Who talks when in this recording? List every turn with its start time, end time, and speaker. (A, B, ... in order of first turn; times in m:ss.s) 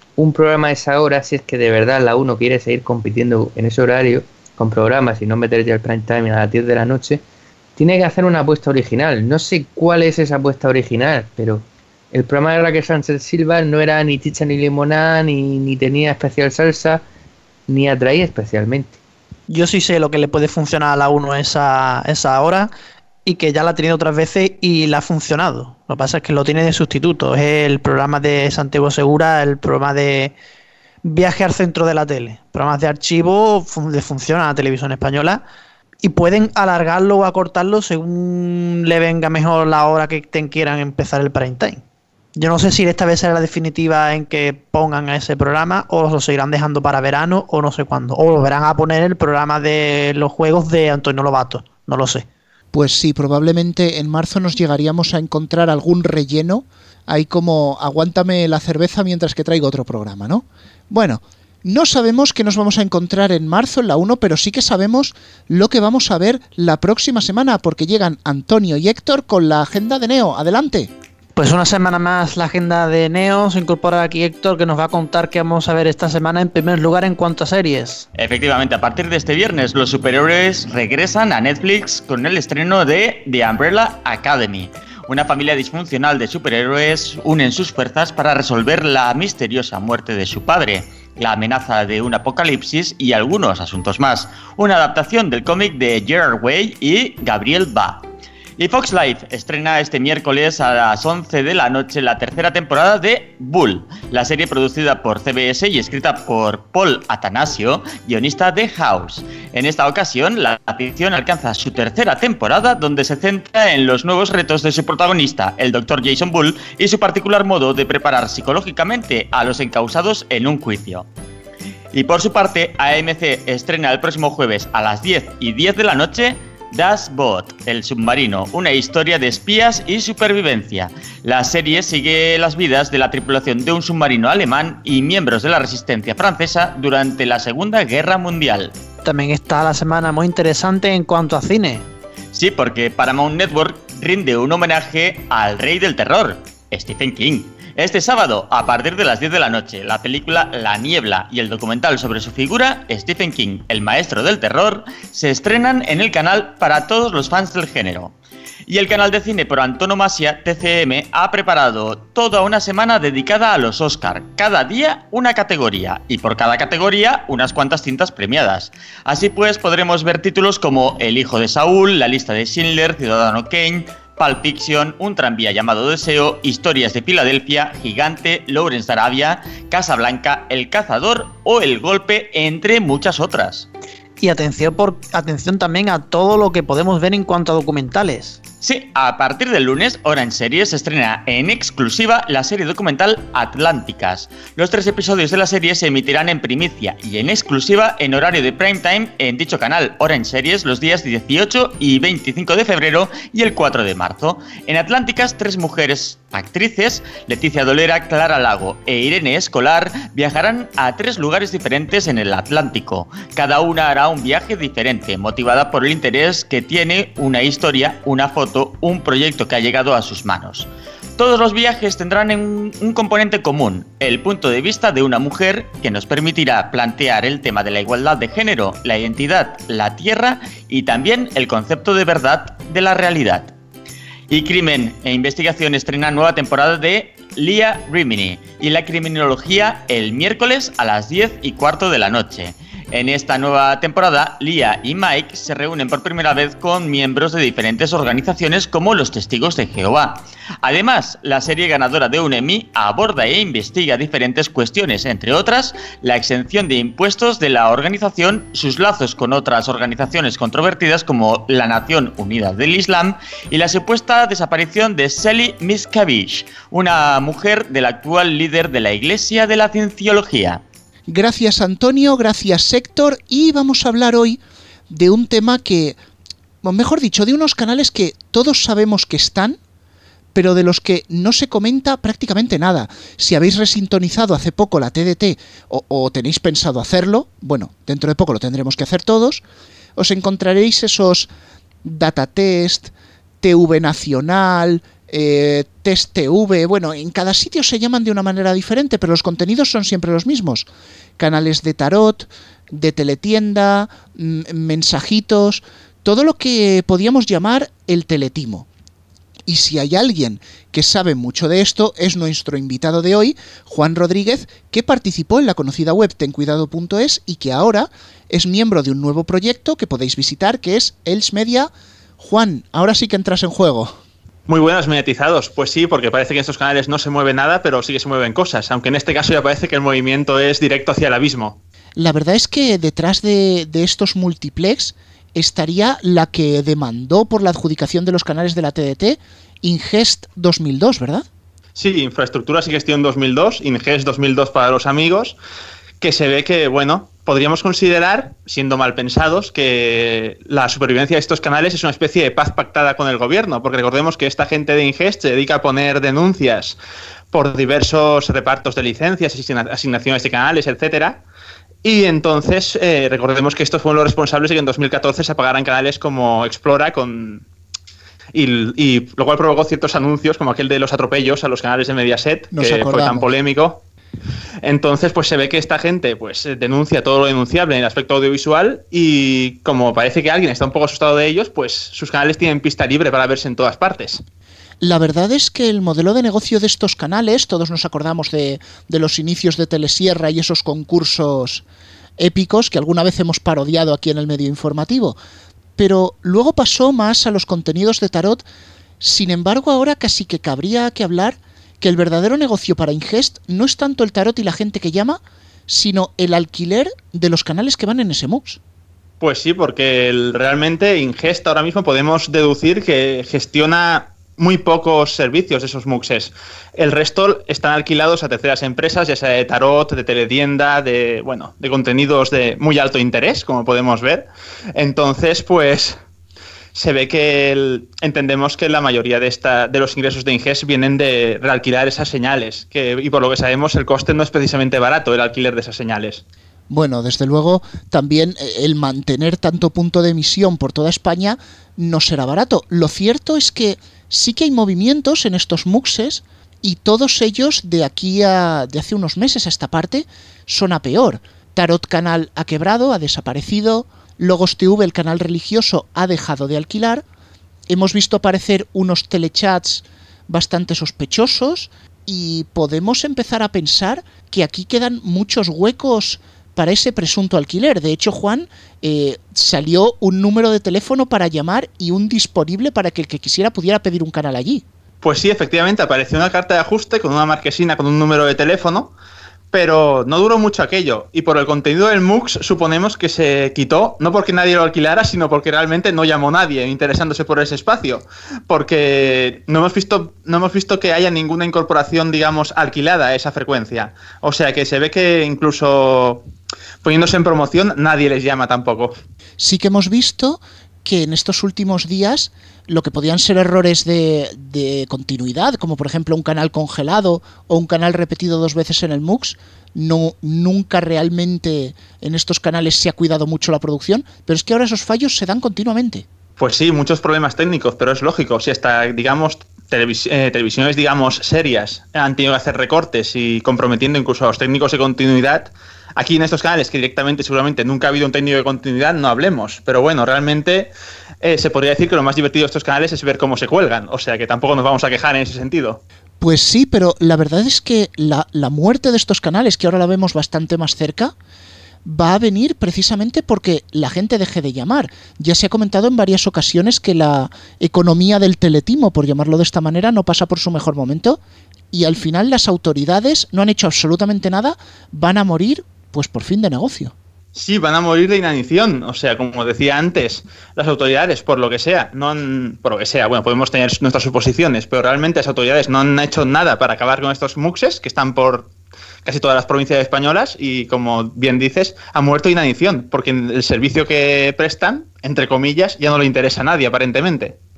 0:00.2-0:07.2 A
0:07.8-0:17.0 A
0:17.7-0:19.0 A
0:19.5-0:22.7 B
0:23.2-0:30.3 B
0:31.0-0:35.4 B
0:36.0-0:41.8 B
0:42.4-0:52.3 B
0:52.7-1:10.9 C
1:11.4-1:18.0 B
1:18.1-1:38.0 D
1:38.6-2:01.1 D
2:01.9-2:18.7 D
2:19.0-2:21.8 B
2:22.3-2:38.1 D
2:38.7-3:03.7 D
3:04.2-3:08.4 B
3:08.6-3:53.5 D
3:54.3-4:30.6 D
4:31.1-4:36.0 C
4:36.6-4:39.6 C
4:40.3-4:49.4 C
4:50.0-4:51.3 C
4:51.8-5:08.7 C
5:09.5-5:23.9 C
5:24.5-5:31.6 E
5:32.0-5:41.3 C
5:41.7-5:45.4 E
5:46.0-5:56.8 E
5:57.3-6:01.2 E
6:01.8-6:07.4 E
6:08.3-6:13.8 E
6:12.5-6:13.3 C
6:14.6-6:24.2 E
6:24.8-6:31.6 C
6:32.2-6:35.2 C
6:35.8-6:38.4 C
6:39.0-6:48.6 C
6:49.2-7:06.0 E
7:06.7-7:16.2 E
7:16.7-7:37.0 C
7:37.7-7:54.6 C
7:55.0-7:58.9 E
7:59.5-8:16.2 E
8:16.8-8:18.9 E
8:19.4-8:36.0 C
8:36.4-8:50.7 E
8:51.2-8:55.8 E
8:56.2-9:01.1 C
9:01.8-9:11.2 C
9:11.7-9:16.9 C
9:17.3-9:28.5 E
9:29.0-9:37.4 E